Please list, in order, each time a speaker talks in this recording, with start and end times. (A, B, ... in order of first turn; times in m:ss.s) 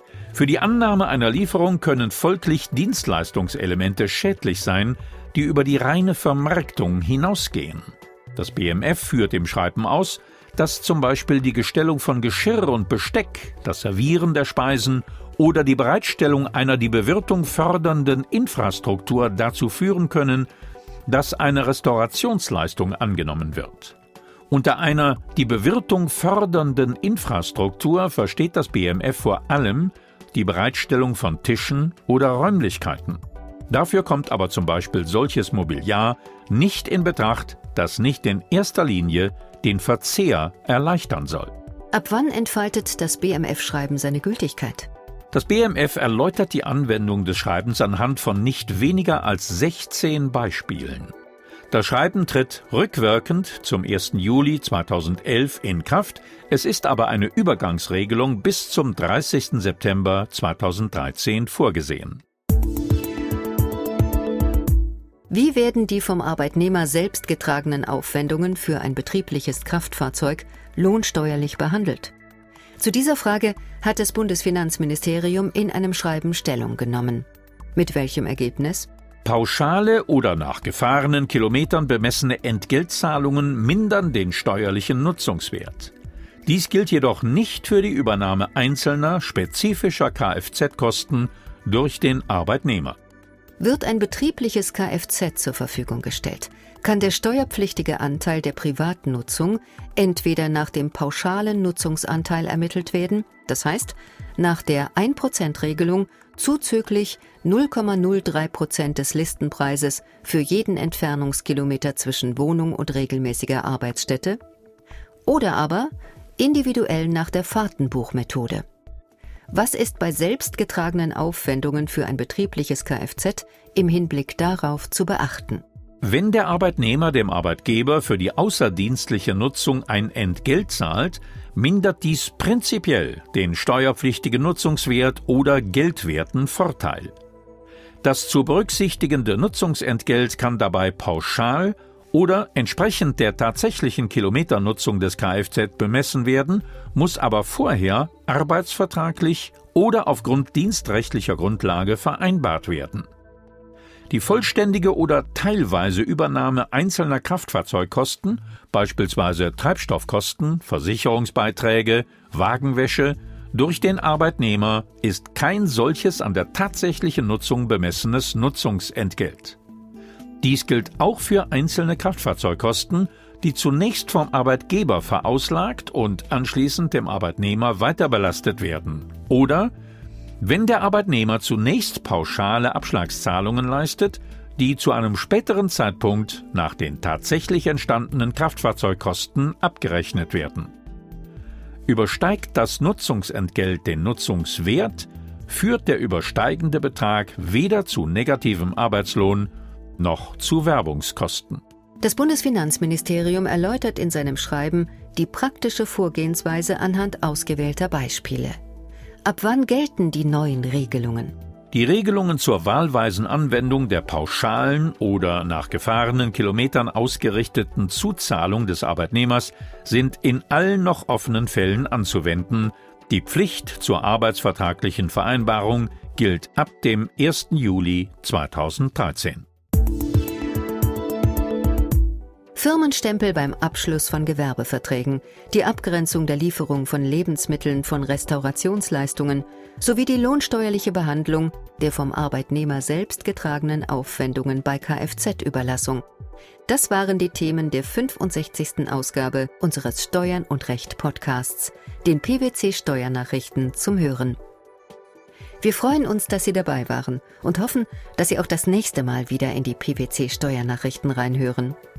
0:00.3-0:20.5 A
0:21.1-0:24.0 A
0:24.5-0:41.5 A
0:41.9-0:44.9 B
0:45.3-0:51.1 A
0:51.7-1:02.2 A
1:05.3-1:12.1 B
1:12.8-1:18.9 B
1:19.2-1:25.9 A
1:26.4-1:33.0 A
1:33.6-1:54.4 B
1:55.2-1:58.6 B
1:59.5-2:05.6 B
2:06.0-2:17.1 A
2:18.0-2:33.0 A
2:34.1-2:49.6 A
2:50.4-2:59.7 A
3:00.4-3:10.7 A
3:11.9-3:21.6 A
3:22.0-3:28.6 B
3:29.2-3:31.4 B
3:31.7-3:49.4 A
3:52.5-4:06.0 B
4:06.7-4:14.4 B
4:15.6-4:21.8 B